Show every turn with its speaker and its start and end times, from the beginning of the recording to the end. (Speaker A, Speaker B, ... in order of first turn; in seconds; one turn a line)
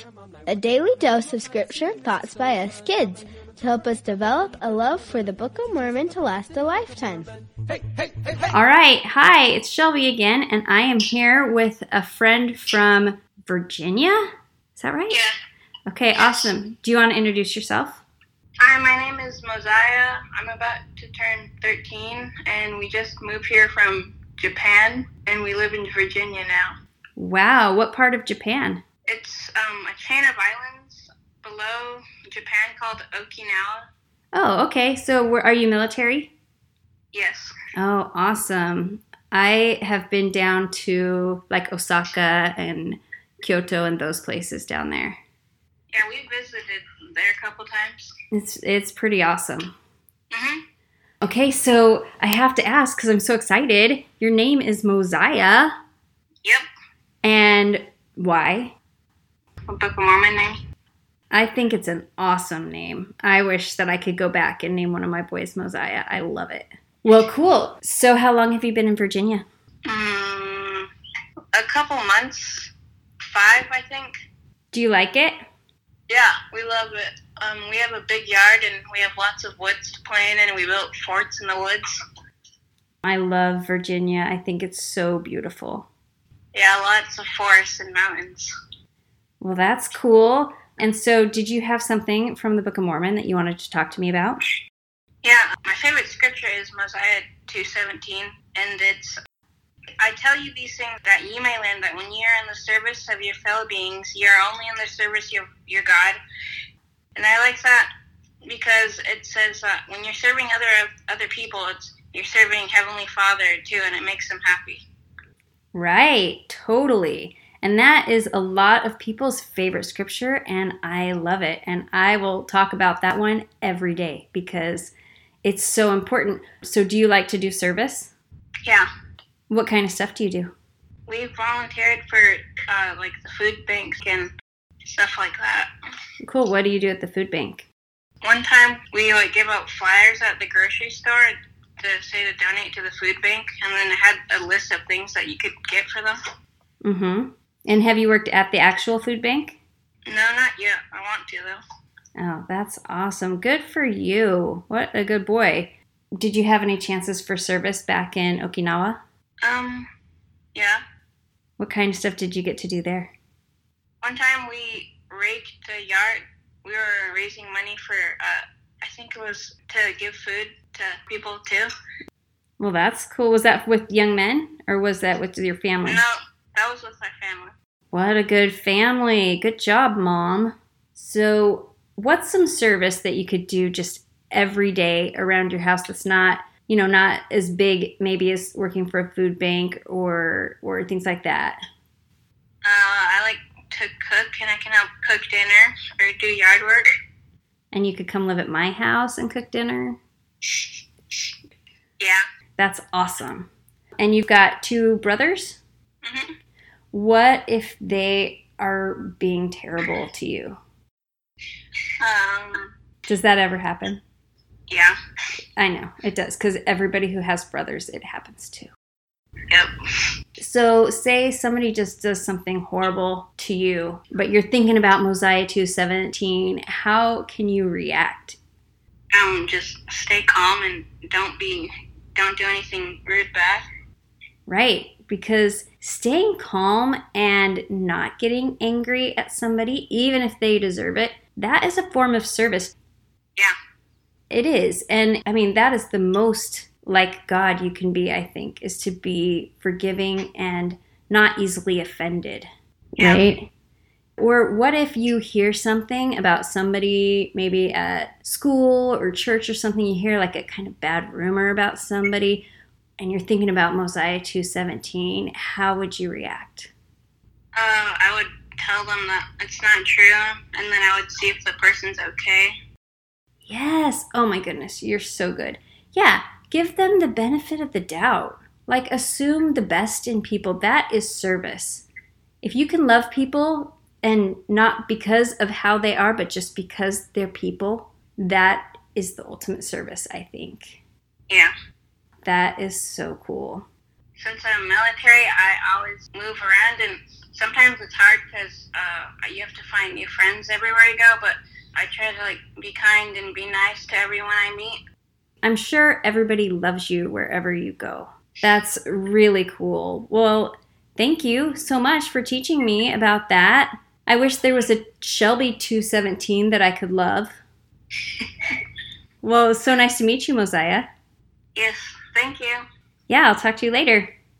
Speaker A: 0.5-7.3
Speaker B: 8.5-15.2
Speaker B: 15.9-18.0
Speaker C: 16.2-16.5
Speaker C: 18.6-26.8
Speaker B: 27.1-28.8
Speaker C: 29.1-33.8
Speaker B: 34.3-36.3
Speaker C: 37.1-37.5
Speaker B: 37.7-45.2
Speaker C: 45.9-48.1
Speaker B: 48.3-49.7
Speaker C: 50.3-50.6
Speaker B: 51.2-55.7
Speaker B: 57.2-58.7
Speaker C: 59.7-60.6
Speaker B: 61.3-69.4
Speaker C: 69.9-70.9
Speaker C: 71.5-72.7
Speaker C: 73.3-74.1
Speaker B: 74.7-75.4
Speaker C: 76.1-82.0
Speaker B: 83.0-85.9
Speaker C: 86.5-88.5
Speaker B: 89.4-94.4
Speaker C: 95.2-99.2
Speaker C: 100.0-106.2
Speaker C: 107.1-107.9
Speaker C: 108.4-114.8
Speaker B: 115.7-124.9
Speaker B: 125.4-128.1
Speaker B: 129.5-130.5
Speaker C: 131.1-134.3
Speaker C: 134.8-135.7
Speaker B: 136.2-137.7
Speaker C: 138.2-146.2
Speaker B: 146.8-149.6
Speaker C: 150.1-151.6
Speaker B: 152.2-159.0
Speaker C: 159.4-159.9
Speaker C: 160.5-160.8
Speaker B: 161.6-163.1
Speaker C: 164.0-171.7
Speaker B: 172.6-176.0
Speaker C: 175.8-177.5
Speaker B: 177.9-191.6
Speaker C: 192.6-196.9
Speaker B: 197.7-200.0
Speaker C: 200.4-201.2
Speaker B: 202.6-203.5
Speaker B: 204.0-205.6
Speaker C: 206.0-206.3
Speaker B: 206.9-210.6
Speaker C: 212.0-212.7
Speaker B: 213.1-214.0
Speaker C: 214.7-215.0
Speaker B: 215.6-218.7
Speaker B: 220.4-228.4
Speaker C: 229.1-233.7
Speaker B: 234.4-242.7
Speaker B: 244.3-253.5
Speaker C: 253.0-253.2
Speaker B: 254.2-266.7
Speaker C: 267.6-272.5
Speaker B: 273.4-281.9
Speaker B: 282.4-290.8
Speaker B: 292.2-293.6
Speaker C: 294.2-304.8
Speaker B: 305.4-317.4
Speaker B: 319.2-320.9
Speaker C: 321.5-322.6
Speaker B: 323.1-324.1